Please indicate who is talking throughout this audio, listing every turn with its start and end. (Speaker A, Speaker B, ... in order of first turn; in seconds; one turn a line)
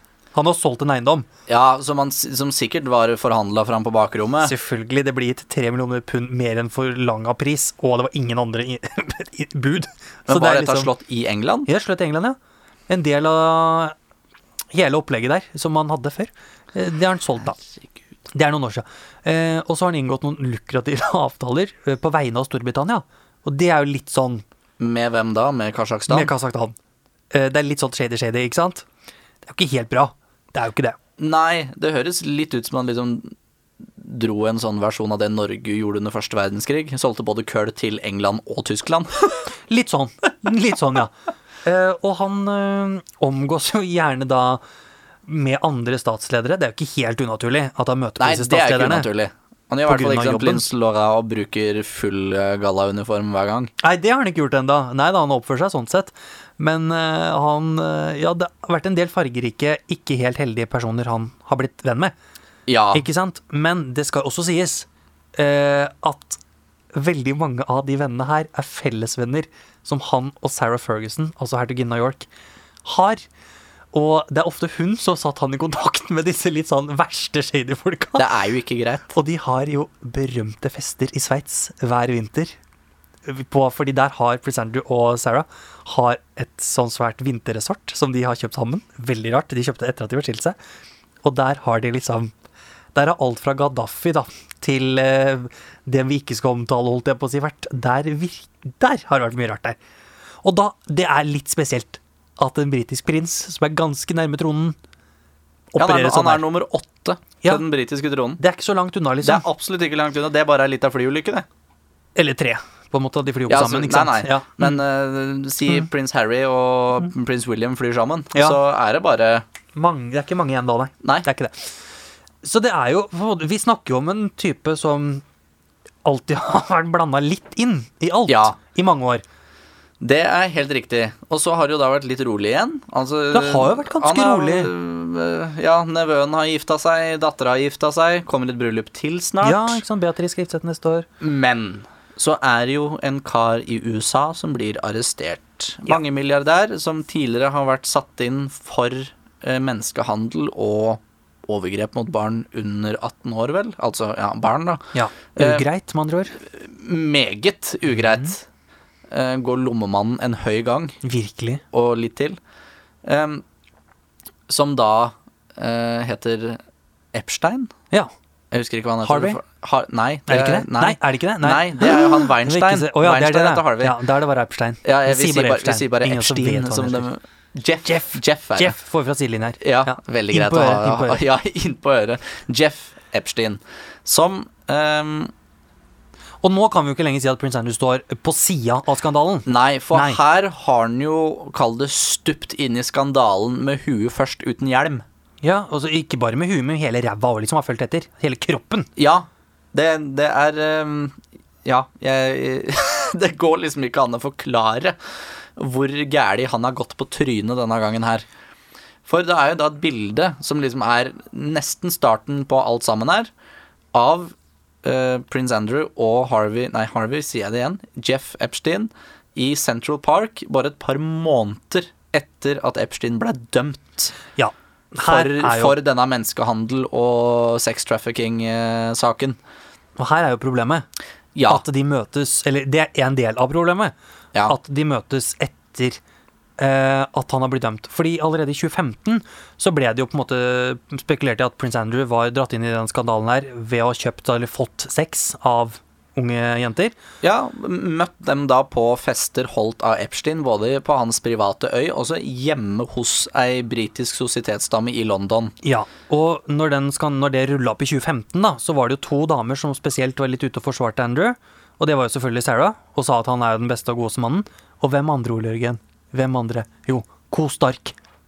Speaker A: 0.3-1.3
Speaker B: 1.5-4.5
Speaker A: 4.4-10.9
Speaker B: 10.3-11.7
Speaker A: 11.7-12.4
Speaker A: 12.9-13.9
Speaker A: 14.7-17.6
Speaker A: 18.3-24.4
Speaker B: 24.8-26.3
Speaker A: 26.1-26.8
Speaker A: 27.3-28.9
Speaker A: 29.4-30.9
Speaker B: 31.2-33.3
Speaker B: 34.0-39.3
Speaker A: 39.7-41.1
Speaker A: 41.6-44.6
Speaker A: 45.3-49.1
Speaker B: 48.2-53.7
Speaker A: 49.9-50.6
Speaker A: 53.8-62.1
Speaker B: 62.7-63.0
Speaker A: 62.9-66.4
Speaker A: 66.9-72.3
Speaker A: 72.8-73.2
Speaker A: 73.9-78.3
Speaker B: 78.2-79.1
Speaker A: 79.1-82.5
Speaker A: 83.2-90.5
Speaker A: 91.2-92.3
Speaker A: 92.9-99.8
Speaker A: 100.4-104.8
Speaker A: 105.7-106.4
Speaker B: 105.8-108.4
Speaker A: 108.4-109.5
Speaker B: 109.2-111.5
Speaker A: 112.2-114.8
Speaker B: 113.5-119.4
Speaker A: 119.7-121.7
Speaker A: 122.4-125.2
Speaker A: 126.0-129.2
Speaker B: 128.3-128.6
Speaker B: 130.0-139.8
Speaker A: 133.3-134.7
Speaker A: 139.4-141.1
Speaker B: 141.2-155.6
Speaker A: 154.9-156.4
Speaker B: 156.4-158.4
Speaker B: 159.1-161.0
Speaker A: 161.0-161.6
Speaker B: 161.7-162.4
Speaker B: 163.0-163.4
Speaker B: 164.5-166.6
Speaker B: 167.1-167.7
Speaker B: 168.5-174.0
Speaker A: 169.0-169.4
Speaker A: 170.3-177.1
Speaker B: 174.8-178.8
Speaker A: 177.8-181.2
Speaker B: 179.6-185.3
Speaker A: 186.4-190.2
Speaker B: 189.5-195.0
Speaker A: 195.4-198.9
Speaker B: 198.9-204.9
Speaker B: 205.6-208.2
Speaker B: 209.1-213.3
Speaker B: 213.9-224.1
Speaker A: 224.3-225.8
Speaker B: 225.1-229.4
Speaker A: 230.0-230.8
Speaker B: 231.3-231.6
Speaker A: 231.5-233.9
Speaker A: 234.4-236.0
Speaker A: 236.6-246.9
Speaker B: 247.2-255.5
Speaker A: 255.6-267.9